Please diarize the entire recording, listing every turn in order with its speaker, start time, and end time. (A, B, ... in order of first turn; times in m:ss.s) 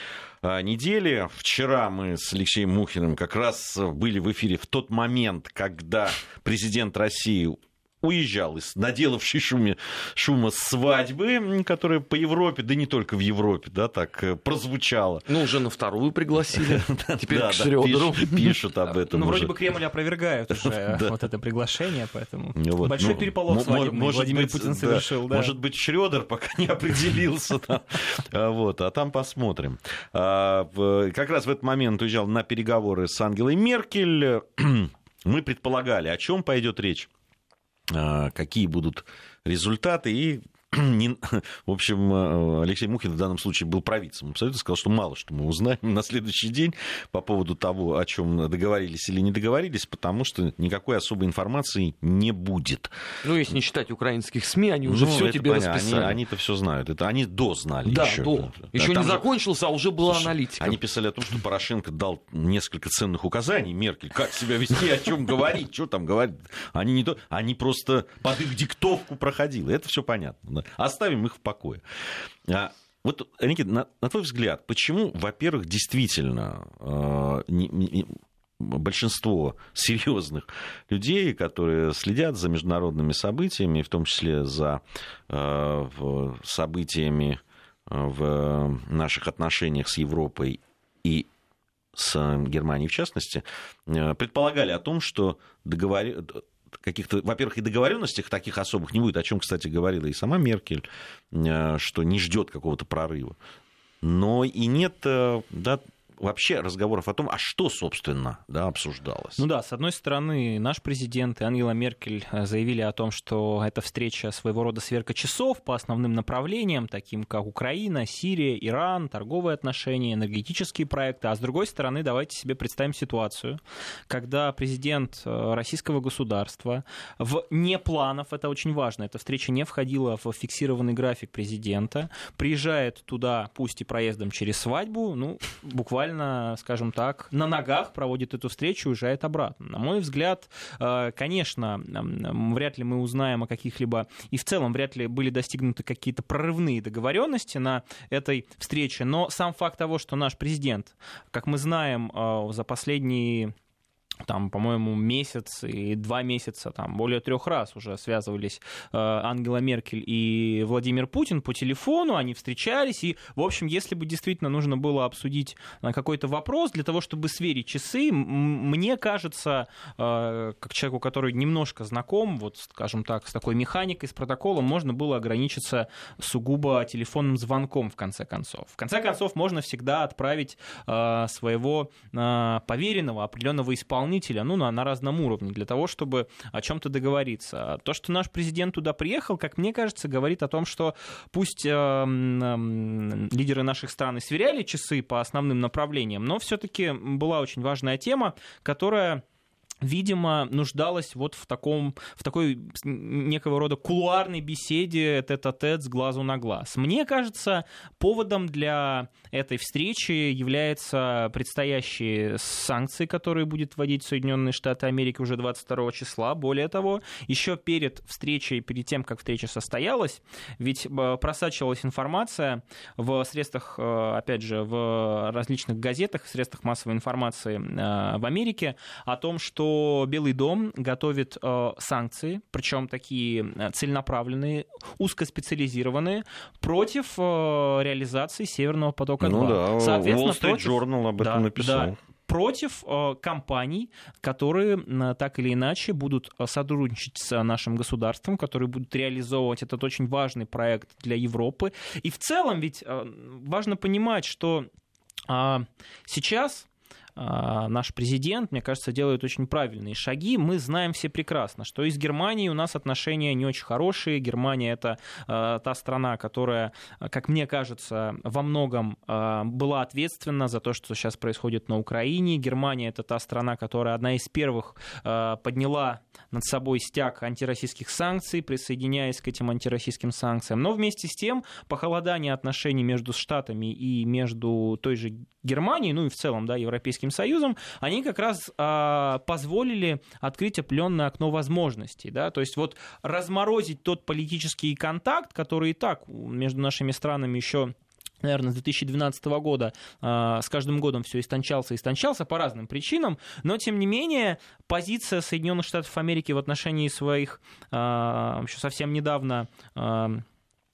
0:00.4-0:15.3 A
0:15.3-0:18.6 B
0:16.6-0:19.5 A
0:19.0-0:25.5 C
0:20.5-0:21.2 A
0:22.6-0:37.1 A
0:37.9-0:52.9 A
0:53.2-0:56.2 B
0:54.9-0:59.2 A
0:57.8-1:00.8 B
1:00.0-1:11.8 A
1:12.5-1:31.3 A
1:31.9-1:43.4 A
1:44.0-1:49.4 A
1:49.4-2:33.5 C
2:34.2-3:19.2 C
3:19.8-4:14.7 C
3:59.2-4:02.0 A
4:15.3-5:10.2 C